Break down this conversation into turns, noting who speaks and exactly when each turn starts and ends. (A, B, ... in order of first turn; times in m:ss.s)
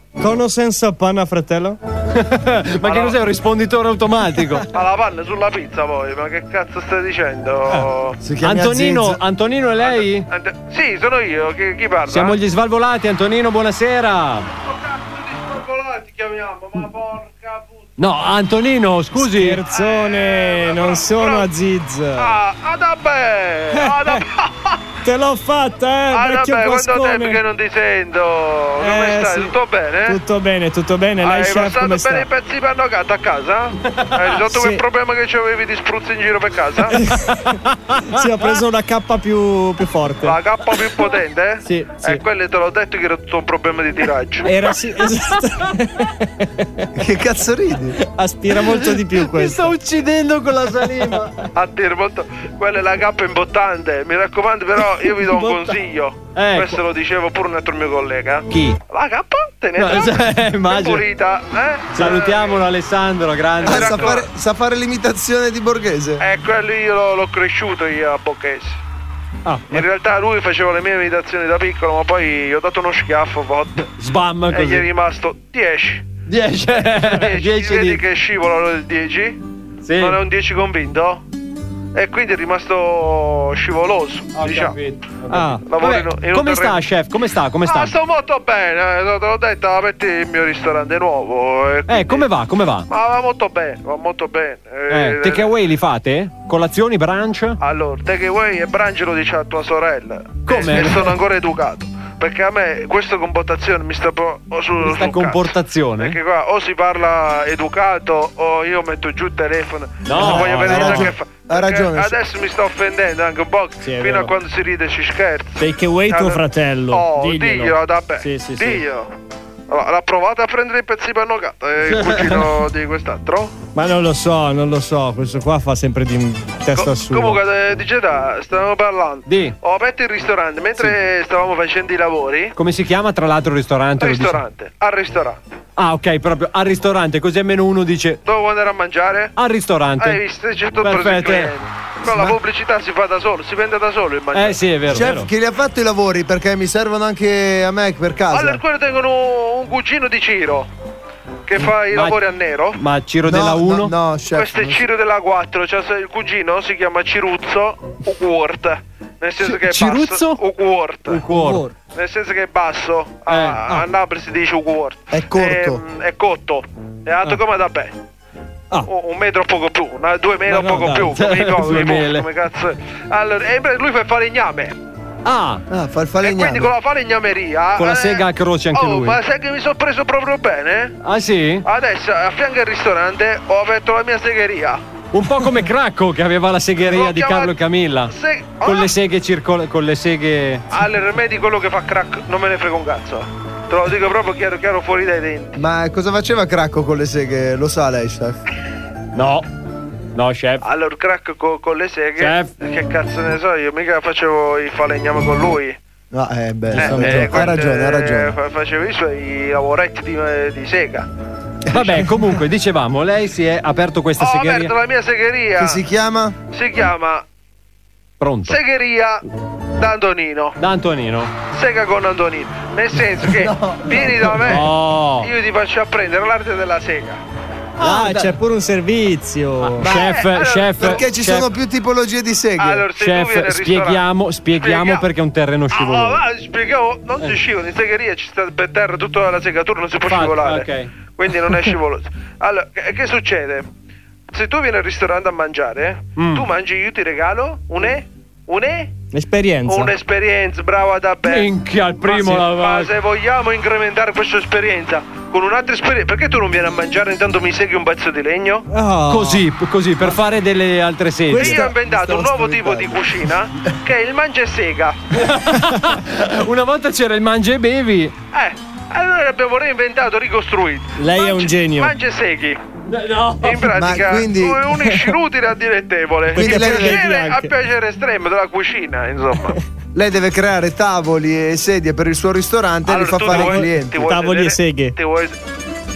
0:00.2-0:01.8 A
0:02.1-0:04.6 B
0:02.8-0:03.2 C
0:04.7-0:08.2 C
0:08.2-0:09.2 D
0:08.4-0:10.3 B
0:09.8-0:12.4 C
0:12.1-0:14.5 B
0:14.5-0:17.9 C
0:18.0-0:19.6 B
0:19.2-0:22.3 A
0:19.7-0:21.5 C
0:22.2-0:24.8 C
0:23.7-0:24.2 A
0:25.0-0:27.4 A
0:26.1-0:30.2 C
0:28.8-0:29.5 A
0:30.1-0:32.2 A
0:31.2-0:37.0 C
0:34.5-0:34.8 A
0:36.9-0:40.4 A
0:40.2-0:44.6 C
0:41.6-0:42.2 A
0:44.5-0:46.9 A
0:46.9-0:48.0 D
0:48.0-0:49.7 A
0:48.8-0:51.4 B
0:51.5-1:02.6 C
0:55.3-0:55.6 A
0:56.3-0:56.7 B
0:58.5-0:58.8 B
0:59.8-1:01.0 B
1:01.9-1:04.2 B
1:03.6-1:04.2 C
1:03.6-1:06.2 D
1:06.2-1:08.8 C
1:09.4-1:09.8 A
1:09.7-1:13.9 C
1:14.0-1:14.8 B
1:14.5-1:16.1 C
1:16.3-1:18.0 B
1:16.8-1:19.4 C
1:19.8-1:20.2 B
1:20.0-1:21.2 C
1:21.9-1:24.8 C
1:24.3-1:27.9 B
1:25.3-1:25.6 A
1:25.6-1:26.8 C
1:27.6-1:32.3 C
1:31.9-1:32.9 B
1:32.9-1:35.5 C
1:34.9-1:37.6 B
1:37.6-1:59.1 C
1:40.4-1:41.1 B
1:44.8-1:46.2 B
1:50.0-1:51.1 B
1:50.2-1:50.5 A
1:50.2-1:52.2 D
1:53.8-1:54.3 A
1:55.6-1:58.8 A
1:59.7-2:03.5 C
2:01.9-2:02.4 B
2:03.7-2:07.4 A
2:06.7-2:12.5 C
2:09.3-2:09.6 B
2:12.5-2:14.4 B
2:14.0-2:15.4 C
2:15.8-2:18.2 B
2:18.2-2:19.3 C
2:19.4-2:20.2 B
2:20.0-2:24.7 C
2:20.8-2:21.5 B
2:22.0-2:22.3 D
2:24.3-2:25.3 B
2:24.9-2:28.6 D
2:28.3-2:30.7 C
2:31.5-2:32.8 C
2:31.9-2:32.2 B
2:32.7-2:33.9 B
2:33.2-2:34.8 D
2:34.3-2:41.2 C
2:39.4-2:40.4 B
2:41.1-2:41.6 B
2:41.2-2:41.7 A
2:41.9-2:47.9 C
2:43.3-2:43.6 B
2:45.1-2:45.8 D
2:48.9-2:54.7 C
2:50.5-2:51.1 A
2:51.1-2:52.2 B
2:55.2-2:55.6 B
2:55.7-2:56.7 D
2:56.2-3:01.0 C
2:57.8-2:59.2 B
3:01.0-3:01.6 B
3:01.6-3:04.8 C
3:05.1-3:10.6 B
3:06.8-3:08.9 C
3:10.7-3:15.6 C
3:15.6-3:18.4 D
3:19.1-3:19.5 B
3:20.1-3:20.6 B
3:20.6-3:25.8 C
3:22.2-3:22.5 B
3:26.1-3:28.3 D
3:26.7-3:27.5 A
3:26.7-3:31.1 C
3:31.7-3:34.7 B
3:34.2-3:35.8 C
3:35.6-3:36.4 D
3:36.5-3:37.2 C
3:38.2-3:38.6 B
3:38.4-3:39.2 C
3:39.8-3:40.6 C
3:40.6-3:41.3 B
3:41.5-3:47.2 C
3:44.4-3:45.3 B
3:47.8-3:49.9 A
3:47.8-3:48.3 B
3:49.8-3:51.5 B
3:49.8-3:51.0 C
3:50.8-3:52.9 D
3:52.6-3:54.0 C
3:53.0-3:56.2 B
3:54.6-3:55.0 C
3:55.7-4:03.7 C
4:00.0-4:00.9 B
4:04.3-4:08.9 C
4:06.2-4:06.4 B
4:09.1-4:09.9 A
4:09.7-4:11.5 C
4:11.2-4:12.9 B
4:12.0-4:18.7 C
4:18.7-4:19.5 A
4:19.1-4:21.6 B
4:21.3-4:22.8 A
4:21.4-4:25.0 C
4:22.0-4:23.0 D
4:25.1-4:28.2 B
4:28.3-4:32.6 C
4:31.0-4:31.9 A
4:32.9-4:33.7 B
4:33.4-4:39.6 C
4:33.7-4:34.7 D
4:36.3-4:37.0 D
4:36.3-4:37.5 A
4:39.9-4:44.0 D
4:42.8-4:45.3 C
4:43.3-4:44.9 A